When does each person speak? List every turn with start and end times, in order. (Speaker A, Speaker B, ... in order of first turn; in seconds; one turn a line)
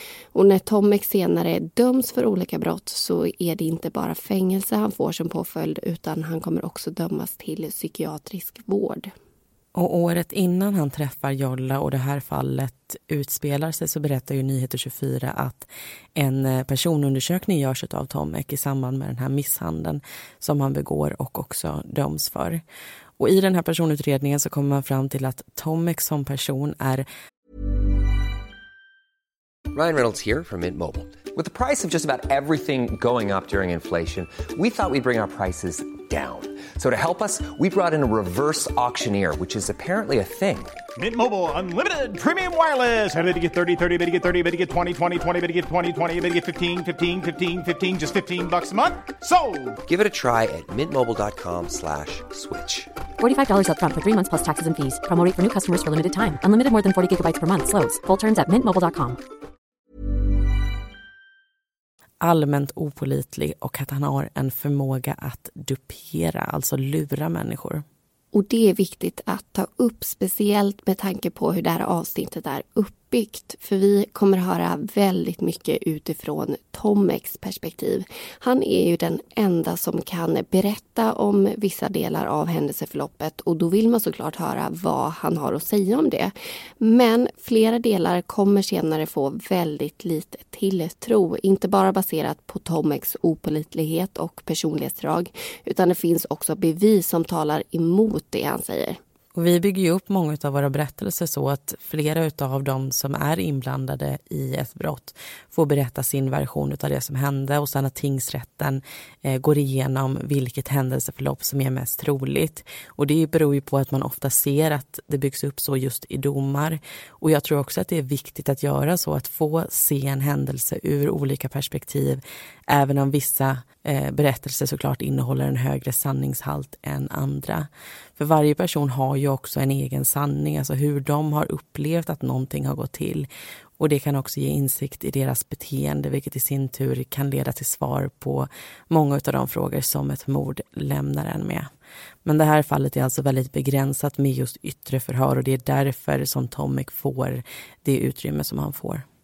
Speaker A: 0.3-9.1
Speaker B: 9.8-22.6
Speaker B: 23.2-27.1
Speaker C: 29.7-40.8
Speaker D: 41.0-49.8
Speaker C: 49.9-52.9
Speaker E: 53.2-59.2
Speaker B: 62.2-67.8
Speaker A: 68.3-99.0
Speaker B: 99.3-141.7
Speaker B: 142.2-149.1